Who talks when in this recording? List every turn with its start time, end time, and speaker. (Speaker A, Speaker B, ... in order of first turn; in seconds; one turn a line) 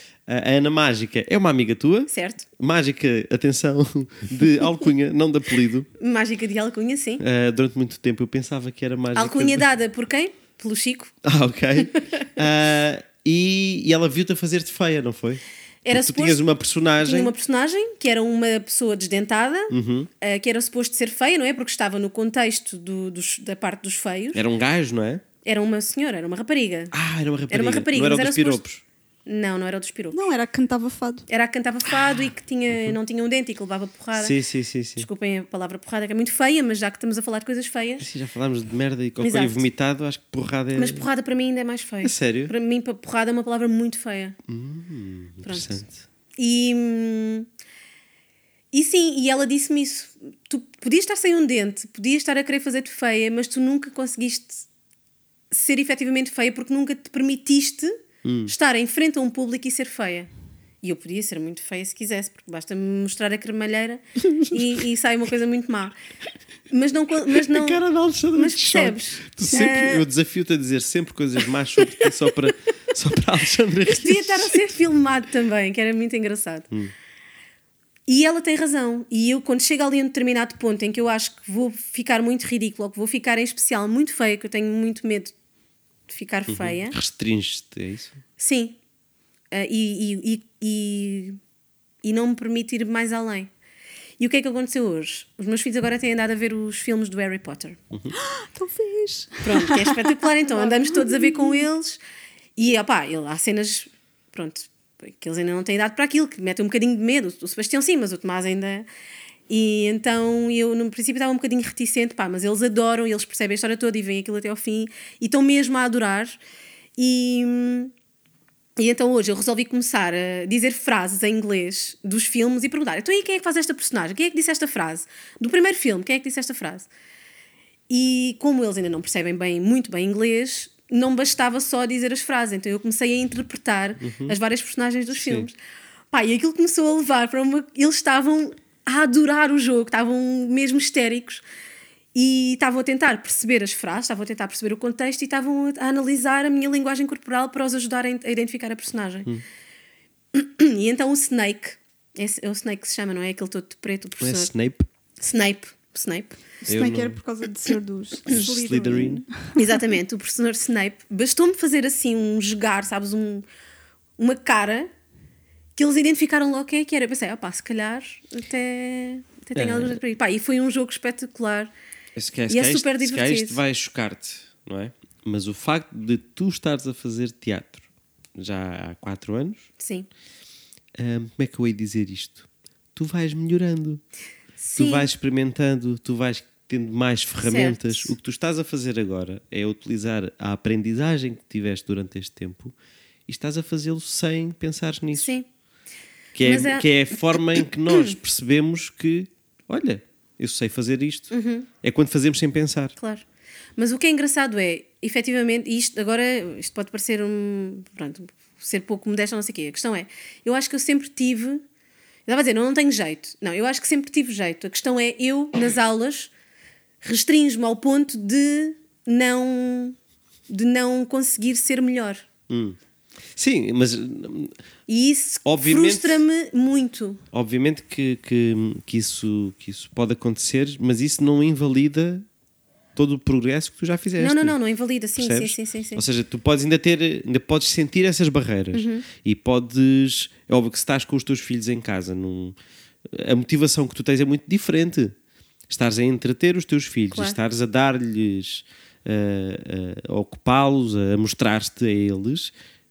Speaker A: 0.3-5.9
Speaker B: 2.1-2.4
Speaker B: 6.0-7.2
Speaker A: 7.2-9.7
Speaker B: 9.2-11.2
Speaker A: 11.2-17.3
Speaker B: 11.8-12.2
Speaker B: 15.8-16.4
Speaker B: 17.0-24.4
Speaker A: 19.7-20.1
Speaker A: 24.3-25.2
Speaker B: 25.4-26.9
Speaker A: 26.9-28.8
Speaker B: 27.5-28.6
Speaker B: 29.2-30.3
Speaker C: 30.1-31.3
Speaker B: 31.3-34.3
Speaker A: 32.7-33.0
Speaker A: 34.1-35.1
Speaker B: 35.0-38.1
Speaker A: 38.0-41.0
Speaker B: 39.2-39.6
Speaker B: 40.7-44.4
Speaker A: 42.0-42.5
Speaker A: 44.5-46.0
Speaker B: 45.4-45.8
Speaker B: 46.4-47.5
Speaker B: 48.7-54.6
Speaker B: 55.5-58.0
Speaker A: 58.2-58.5
Speaker B: 58.5-60.3
Speaker B: 60.8-65.9
Speaker B: 66.7-67.8
Speaker A: 67.3-74.7
Speaker B: 68.3-70.0
Speaker B: 73.9-76.7
Speaker B: 78.1-85.3
Speaker B: 86.1-86.9
Speaker A: 86.5-88.2
Speaker B: 88.4-88.8
Speaker B: 89.5-91.4
Speaker B: 92.0-93.5
Speaker B: 94.2-97.8
Speaker C: 98.2-101.6
Speaker B: 99.4-102.0
Speaker B: 102.5-108.9
Speaker B: 109.5-116.4
Speaker B: 117.0-117.9
Speaker B: 118.8-126.9
Speaker B: 127.9-135.6
Speaker A: 134.0-134.4
Speaker A: 135.1-135.5
Speaker B: 136.1-141.4
Speaker B: 142.1-149.3
Speaker B: 150.3-154.5
Speaker A: 154.2-154.9
Speaker B: 155.2-156.4
Speaker C: 156.6-159.6
Speaker A: 156.7-157.2
Speaker A: 158.3-159.2
Speaker B: 159.5-163.4
Speaker B: 164.2-164.9
Speaker B: 165.8-171.7
Speaker A: 169.5-170.0
Speaker A: 172.2-177.8
Speaker B: 172.5-173.6
Speaker A: 178.4-179.7
Speaker B: 179.8-180.1
Speaker A: 181.0-184.0
Speaker B: 184.6-185.1
Speaker A: 184.8-192.7
Speaker B: 187.4-188.1
Speaker A: 193.3-195.3
Speaker B: 195.1-195.4
Speaker A: 196.3-202.9
Speaker B: 196.4-198.2
Speaker B: 201.3-201.7
Speaker B: 203.0-203.2
Speaker B: 203.8-211.6
Speaker B: 212.3-216.3
Speaker B: 217.0-219.9
Speaker B: 220.5-222.2
Speaker A: 222.5-222.8
Speaker A: 223.4-224.5
Speaker B: 224.9-227.2
Speaker A: 225.4-226.2
Speaker A: 227.3-232.2
Speaker A: 232.9-234.6
Speaker B: 234.2-236.0
Speaker A: 235.2-242.5
Speaker B: 238.7-239.0
Speaker A: 243.1-245.1
Speaker A: 245.7-252.5
Speaker B: 247.1-247.4